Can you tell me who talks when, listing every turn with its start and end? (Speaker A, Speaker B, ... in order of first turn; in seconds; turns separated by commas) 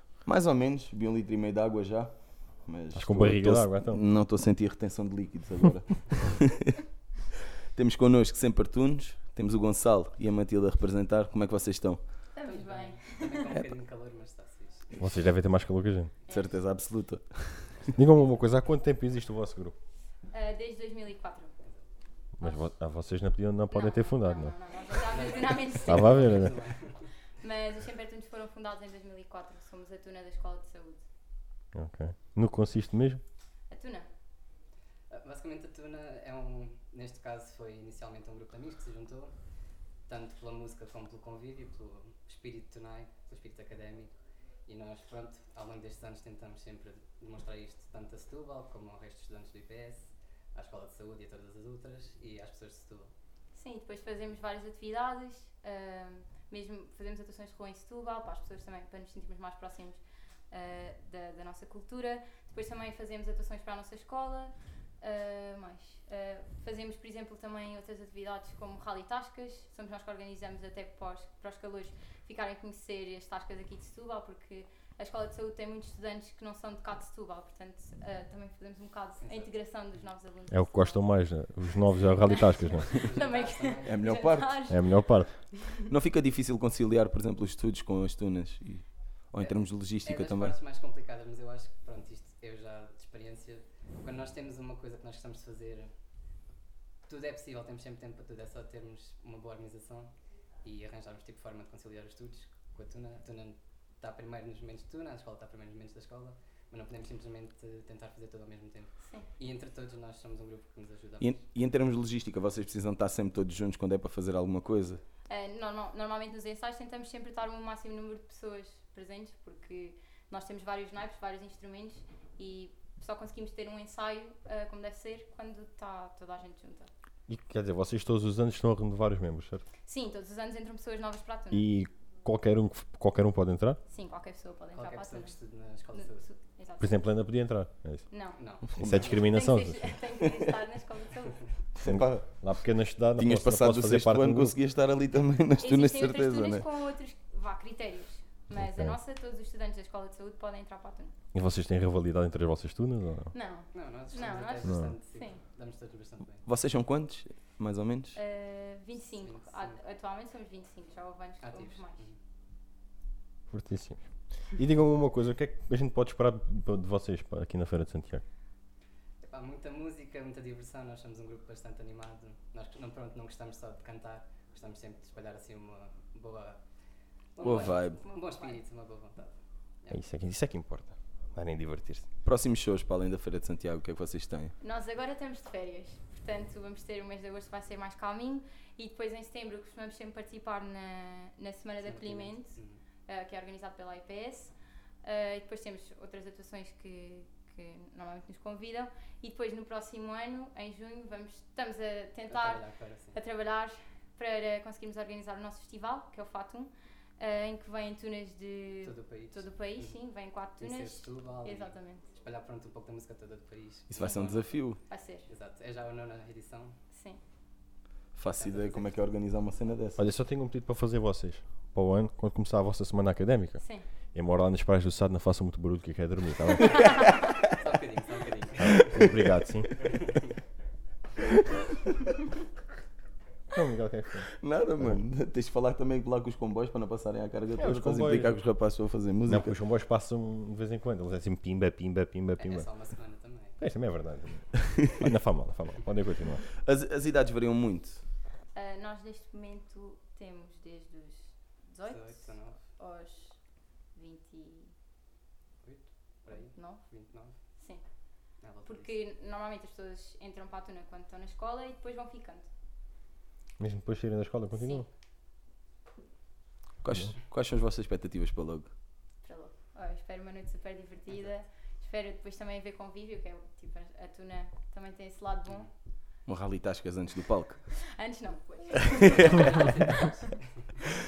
Speaker A: 0.2-6.8, Speaker B: 3.0-4.0, Speaker A: 7.7-12.0, Speaker C: 12.3-13.6, Speaker D: 12.5-15.0, Speaker B: 15.0-16.1, Speaker A: 16.3-17.9, Speaker B: 17.9-19.8, Speaker C: 20.3-21.5, Speaker B: 22.4-24.6, Speaker C: 22.4-22.7, Speaker C: 23.7-26.5, Speaker D: 24.9-27.1, Speaker B: 25.9-26.6, Speaker C: 27.4-31.0, Speaker B: 31.7-33.2, Speaker C: 33.7-34.1, Speaker D: 35.1-39.4, Speaker D: 40.1-44.1, Speaker D: 44.7-53.1, Speaker C: 53.5-81.2, Speaker D: 79.2-80.1, Speaker B: 80.5-83.0, Speaker C: 81.9-85.1, Speaker D: 82.6-84.2, Speaker A: 83.8-84.6, Speaker B: 84.7-85.3, Speaker A: 85.8-90.6, Speaker D: 89.4-95.9, Speaker D: 97.1-111.4, Speaker A: 111.2-115.0, Speaker C: 115.3-126.9, Speaker B: 127.3-129.6, Speaker C: 129.8-131.7, Speaker B: 131.5-133.8, Speaker C: 133.9-135.4, Speaker D: 134.8-136.2, Speaker C: 135.9-137.2, Speaker B: 136.8-138.1, Speaker C: 138.1-138.4, Speaker D: 138.4-139.2, Speaker B: 138.6-139.9, Speaker A: 138.7-139.2, Speaker C: 138.9-141.5, Speaker A: 141.8-142.5, Speaker B: 141.9-144.6, Speaker A: 143.2-146.7, Speaker C: 145.6-151.1, Speaker B: 148.5-148.9, Speaker B: 151.3-153.3, Speaker C: 153.3-155.4, Speaker D: 153.7-156.4, Speaker B: 154.6-154.9, Speaker A: 156.4-158.2, Speaker C: 158.2-162.1, Speaker D: 159.2-159.8, Speaker D: 161.4-162.2, Speaker B: 163.5-168.2, Speaker D: 169.2-176.7, Speaker D: 177.3-180.0, Speaker C: 177.4-178.6, Speaker A: 177.4-178.0, Speaker B: 179.9-182.1, Speaker A: 182.2-184.5, Speaker C: 184.6-212.1, Speaker D: 191.8-192.8, Speaker D: 202.3-203.2, Speaker D: 208.8-210.0, Speaker D: 210.6-216.8, Speaker A: 213.9-214.8, Speaker C: 214.0-214.3, Speaker C: 214.9-215.3, Speaker C: 216.9-217.2, Speaker A: 218.2-220.0, Speaker D: 218.2-219.1, Speaker B: 220.0-226.8, Speaker C: 223.6-223.9, Speaker D: 227.5-228.9, Speaker B: 228.6-229.7, Speaker B: 233.5-234.3, Speaker A: 234.4-239.6, Speaker B: 237.6-238.4, Speaker B: 239.3-242.7, Speaker D: 242.4-243.6, Speaker B: 243.6-246.4, Speaker A: 246.6-248.0, Speaker C: 248.5-254.7, Speaker D: 251.8-252.6, Speaker D: 255.6-257.4, Speaker C: 256.6-256.8, Speaker C: 257.6-257.8, Speaker D: 258.4-258.9, Speaker C: 258.6-262.5, Speaker B: 263.6-264.9, Speaker C: 264.5-264.9, Speaker A: 266.8-268.7, Speaker C: 269.2-275.7, Speaker A: 276.3-277.6, Speaker C: 277.9-279.9, Speaker D: 278.9-280.7, Speaker A: 279.3-279.6